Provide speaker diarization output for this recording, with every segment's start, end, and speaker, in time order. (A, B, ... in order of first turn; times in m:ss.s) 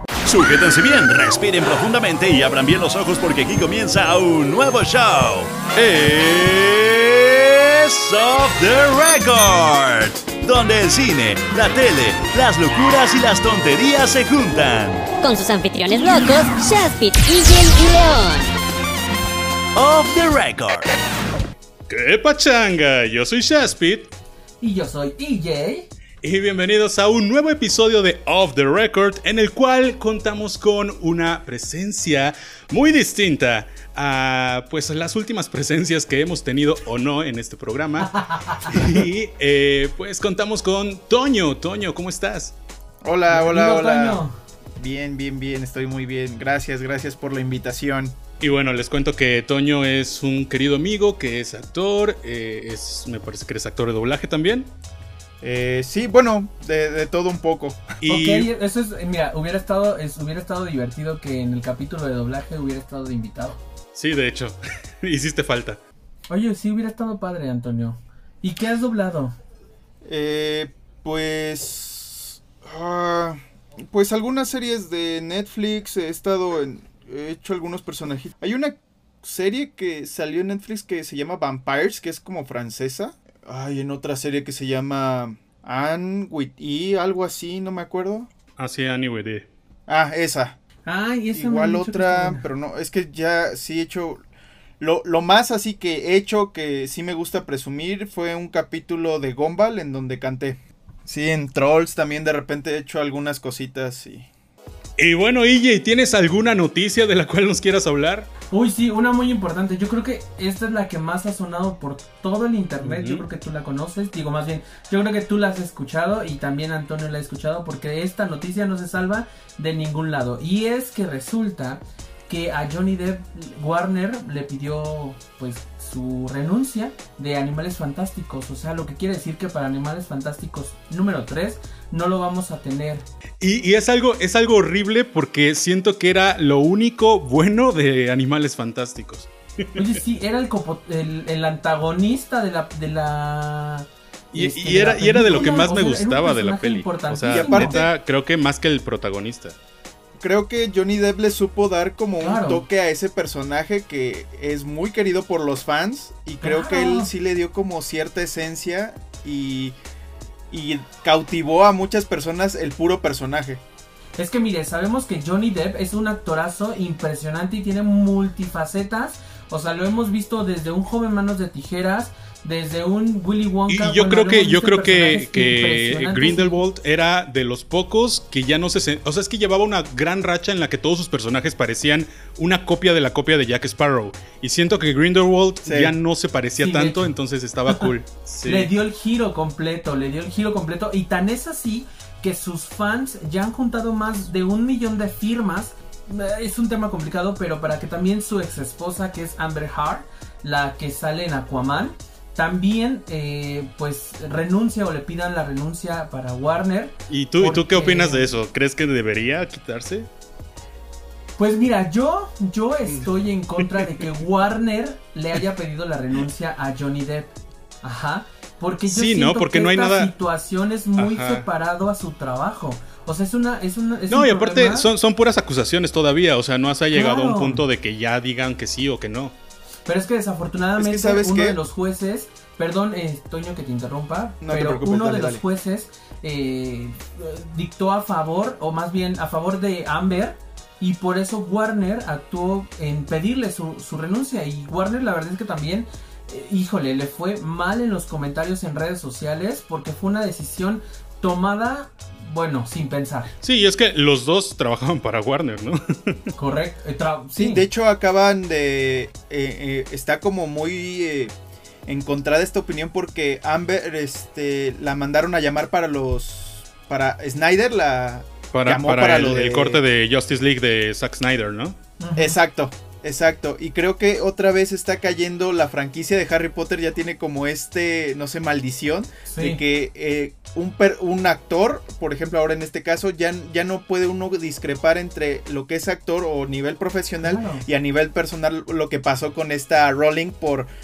0:00.3-0:15.1 A
0:15.2-0:18.5 B
0:19.7-0:20.9 A
0:21.9-0:24.1 C
0:24.6-0:25.9 D
0:26.2-0:42.5 C
0:38.0-0:38.9 D
0:43.0-0:44.2 E
0:43.3-0:44.4 D
0:44.8-0:48.2 E
0:48.4-0:54.7 C
0:55.4-0:57.9 E
0:58.0-0:58.5 C
0:58.0-1:03.6 D
1:03.9-1:05.8 C
1:06.3-1:09.3 D
1:10.0-1:28.3 E
1:28.6-1:29.5 C
1:29.9-1:30.6 E
1:30.8-1:32.4 D
1:31.3-1:34.2 E
1:34.8-1:44.3 E
1:45.0-1:48.3 C
1:48.5-2:13.0 D
1:52.8-1:53.2 C
2:13.4-2:19.8 C
2:19.7-2:27.9 D
2:24.3-2:29.5 C
2:27.3-2:27.9 E
2:30.2-2:39.8 E
2:32.2-2:32.6 D
2:36.4-2:37.1 D
2:40.5-2:43.6 E
2:44.2-2:56.6 D
2:53.7-3:08.7 C
3:05.6-3:05.9 E
3:06.6-3:07.1 D
3:08.4-3:28.3 D
3:27.1-3:30.1 C
3:31.4-3:37.3 D
3:37.8-3:44.9 D
3:38.8-3:40.1 C
3:41.0-3:41.4 C
3:44.1-3:49.3 C
3:46.9-3:47.6 D
3:49.8-4:13.3 D
3:50.8-3:51.6 E
3:54.4-3:55.4 E
4:13.4-4:16.3 C
4:16.3-4:17.6 D
4:17.4-4:21.3 E
4:21.8-4:29.8 E
4:28.5-4:31.8 C
4:32.0-4:32.4 D
4:32.2-4:50.7 E
4:39.2-4:39.6 D
4:47.2-4:47.6 D